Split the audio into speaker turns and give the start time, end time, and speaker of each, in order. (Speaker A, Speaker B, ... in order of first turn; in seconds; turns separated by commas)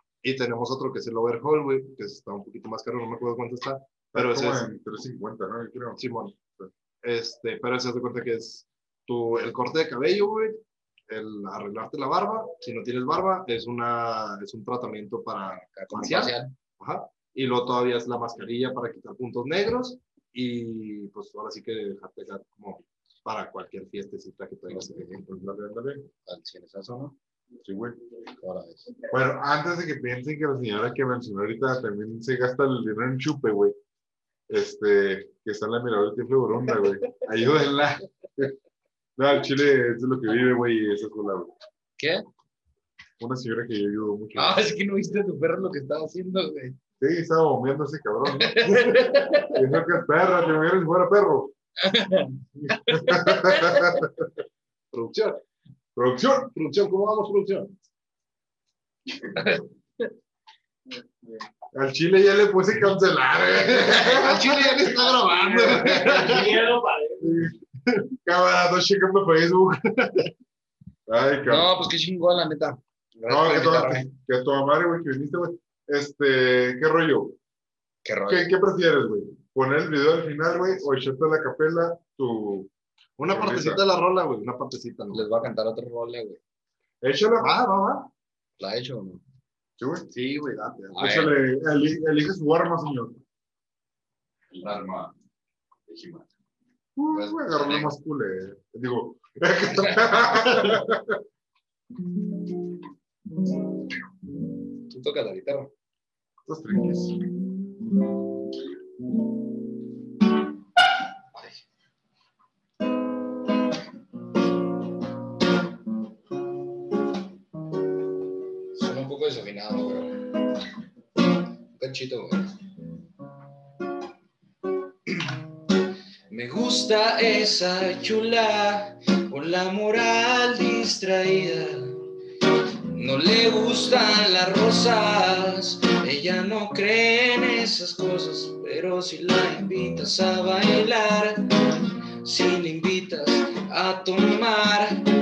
Speaker A: 0.2-4.6, Speaker B: 4.1-6.0, Speaker A: 6.0-6.3, Speaker A: 7.0-25.5, Speaker C: 15.5-16.5, Speaker C: 24.7-25.2, Speaker B: 25.3-26.1, Speaker C: 26.2-27.2, Speaker B: 27.6-28.0, Speaker C: 28.4-28.9, Speaker B: 29.1-33.8, Speaker B: 34.5-38.5, Speaker B: 39.2-41.5, Speaker C: 42.0-42.2, Speaker B: 43.2-44.6, Speaker C: 44.4-46.8, Speaker B: 47.0-51.5, Speaker C: 48.3-49.6, Speaker C: 51.8-54.0, Speaker B: 52.6-54.2, Speaker A: 54.9-55.4, Speaker B: 56.0-56.5, Speaker A: 56.5-57.8, Speaker C: 59.3-60.1, Speaker B: 61.7-64.8, Speaker A: 63.9-66.6, Speaker C: 65.4-67.3, Speaker B: 65.8-66.5, Speaker B: 67.2-67.5, Speaker B: 68.2-69.8, Speaker A: 69.9-70.3, Speaker B: 71.1-71.7, Speaker C: 71.5-74.1, Speaker B: 73.3-77.4, Speaker C: 78.0-78.5, Speaker B: 78.3-82.7, Speaker A: 83.2-85.2, Speaker B: 83.3-83.8, Speaker C: 85.1-86.4, Speaker B: 87.0-87.6, Speaker A: 87.4-88.1, Speaker C: 88.6-89.2, Speaker B: 89.8-90.1, Speaker A: 90.1-91.1, Speaker C: 90.9-91.3, Speaker B: 91.0-93.2, Speaker C: 94.5-95.1, Speaker C: 95.9-96.3, Speaker B: 97.0-101.2, Speaker C: 97.1-97.9, Speaker C: 99.7-100.3, Speaker C: 104.9-105.7, Speaker B: 106.5-107.5, Speaker C: 118.7-120.2, Speaker C: 121.7-122.5, Speaker C: 126.3-132.0, Speaker C: 132.9-141.7, Speaker C: 142.2-145.1